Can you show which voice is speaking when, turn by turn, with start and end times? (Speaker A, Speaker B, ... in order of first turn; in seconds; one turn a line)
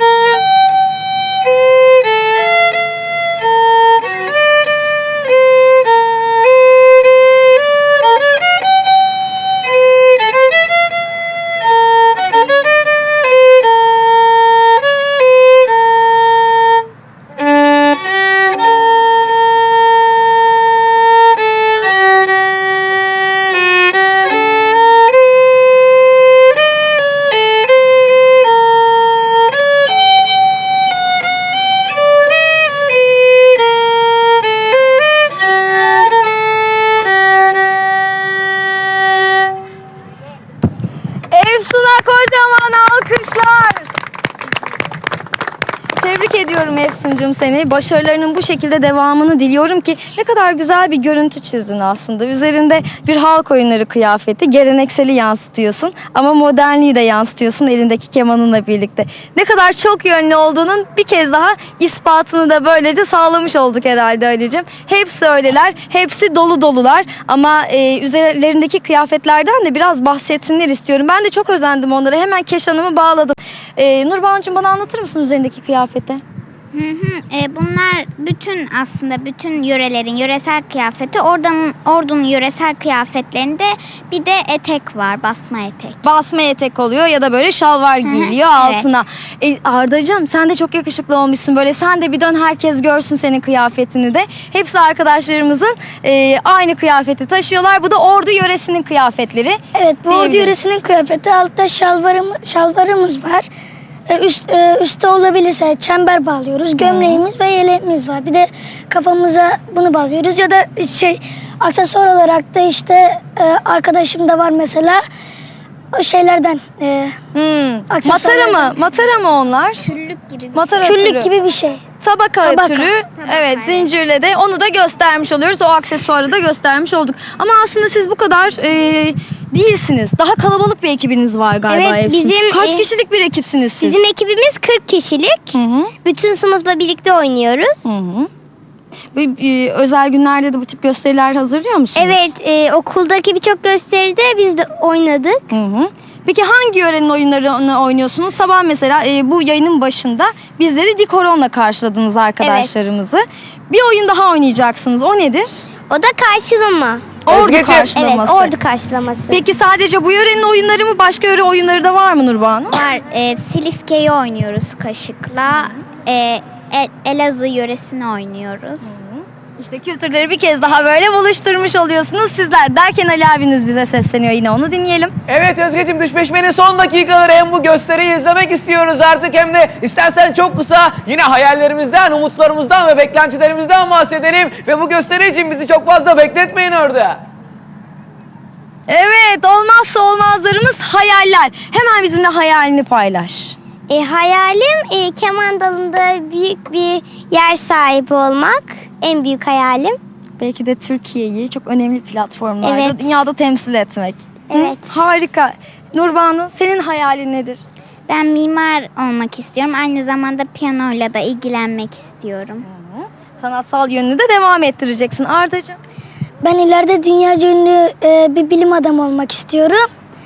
Speaker A: 41.3-43.9
Speaker A: 46.0-76.2
Speaker B: 76.7-86.0
Speaker A: 86.0-100.6
Speaker B: 88.0-88.8
Speaker C: 99.8-103.5
Speaker C: 104.1-115.0
Speaker A: 106.8-107.2
Speaker C: 115.9-117.2
Speaker A: 117.3-119.9
Speaker C: 117.9-118.8
Speaker B: 119.8-120.9
Speaker A: 120.5-121.3
Speaker C: 120.8-121.8
Speaker A: 122.0-134.1
Speaker C: 122.4-122.9
Speaker B: 123.2-123.9
Speaker D: 131.7-132.9
Speaker D: 133.8-137.9
Speaker A: 135.5-135.9
Speaker A: 137.8-138.3
Speaker A: 139.1-142.3
Speaker D: 141.9-145.5
Speaker A: 145.5-155.6
Speaker D: 152.4-152.7
Speaker D: 155.9-157.2
Speaker A: 157.2-158.5
Speaker E: 157.3-157.9
Speaker D: 157.9-159.4
Speaker A: 159.3-162.8
Speaker B: 162.7-169.0
Speaker A: 165.5-165.8
Speaker A: 168.8-175.1
Speaker E: 175.3-187.2
Speaker A: 188.9-193.6
Speaker D: 193.9-200.0
Speaker A: 200.4-207.6
Speaker D: 202.6-203.2
Speaker D: 204.5-205.0
Speaker B: 208.1-212.6
Speaker A: 212.6-215.8
Speaker C: 216.4-219.8